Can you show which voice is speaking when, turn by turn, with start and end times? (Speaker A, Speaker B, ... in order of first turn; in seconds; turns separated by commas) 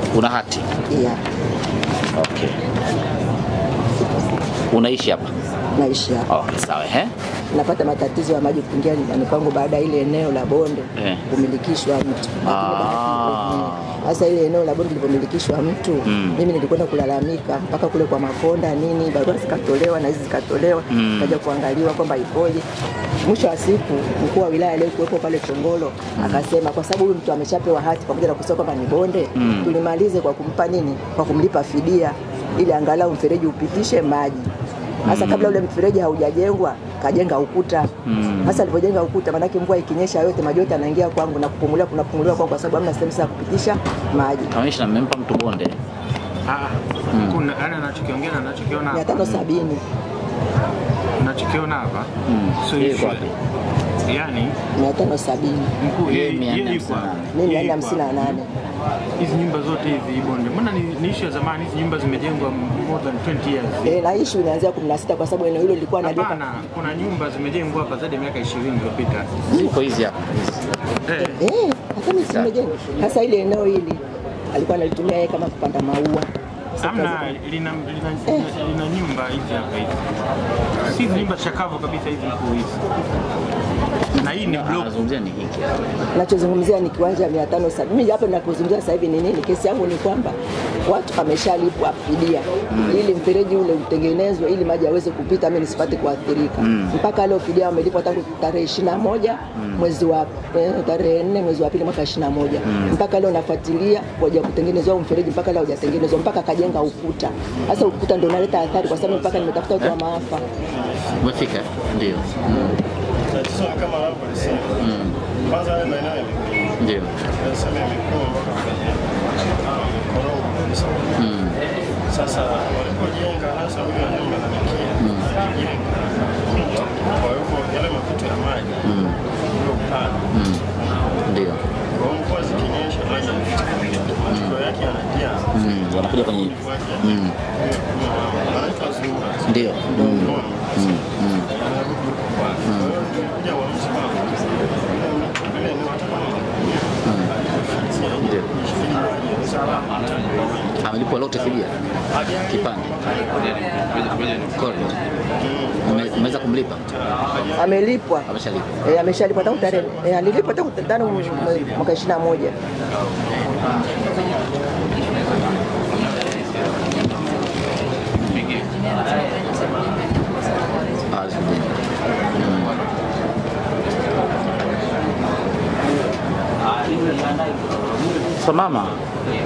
Speaker A: 0.1-0.7, Speaker B: 0.9-1.2, Speaker A: 2.1-2.6, Speaker A: 4.7-5.3, Speaker B: 5.7-6.3, Speaker A: 6.3-7.1, Speaker B: 7.5-22.6, Speaker A: 10.9-11.2, Speaker A: 12.4-14.2, Speaker A: 16.0-16.4, Speaker A: 20.9-21.4, Speaker B: 23.2-34.5, Speaker A: 26.2-26.4, Speaker A: 29.3-29.7, Speaker A: 35.0-35.6, Speaker B: 35.0-37.9, Speaker A: 38.0-38.7, Speaker B: 38.4-44.5, Speaker A: 44.5-45.8, Speaker C: 46.5-49.1, Speaker A: 47.1-47.4, Speaker B: 48.9-49.8, Speaker A: 49.2-49.5, Speaker C: 51.2-53.3, Speaker A: 52.2-53.3, Speaker C: 54.1-54.6, Speaker B: 54.7-55.7, Speaker C: 55.8-58.1, Speaker A: 56.0-57.4, Speaker B: 57.3-58.5, Speaker C: 59.2-64.0, Speaker B: 63.8-66.4, Speaker C: 66.0-69.4, Speaker A: 69.5-70.6, Speaker C: 71.0-71.4, Speaker B: 71.2-74.0, Speaker A: 72.2-72.5, Speaker B: 74.5-76.3, Speaker B: 76.8-77.3, Speaker C: 76.8-80.1, Speaker C: 80.8-82.8, Speaker C: 84.1-84.9, Speaker A: 84.1-86.1, Speaker B: 86.1-110.5, Speaker A: 92.7-93.0, Speaker A: 96.6-97.0, Speaker A: 99.5-99.9, Speaker A: 102.6-103.0, Speaker D: 108.0-109.6, Speaker D: 110.5-111.6, Speaker A: 111.2-112.8, Speaker B: 112.5-112.8, Speaker D: 113.3-121.2, Speaker A: 114.8-115.2, Speaker A: 116.8-117.1, Speaker A: 121.2-121.6, Speaker D: 122.0-130.3, Speaker A: 125.0-125.3, Speaker A: 128.8-129.2, Speaker A: 130.3-130.6, Speaker A: 131.3-131.6, Speaker D: 131.9-140.9, Speaker A: 134.3-134.6, Speaker A: 135.5-137.3, Speaker A: 139.5-141.5, Speaker B: 139.9-140.3, Speaker D: 141.5-150.8, Speaker A: 142.6-143.0, Speaker A: 147.0-147.3, Speaker A: 148.2-148.5, Speaker A: 150.8-151.8, Speaker D: 152.1-153.8, Speaker A: 152.5-152.9, Speaker A: 154.0-155.0, Speaker D: 155.3-157.8, Speaker A: 155.8-156.8, Speaker B: 157.6-158.3, Speaker A: 158.2-158.8, Speaker B: 158.8-162.5, Speaker D: 159.3-160.2, Speaker A: 168.2-168.7, Speaker A: 171.1-171.8, Speaker A: 172.3-172.8, Speaker A: 177.1-177.3, Speaker A: 178.1-179.0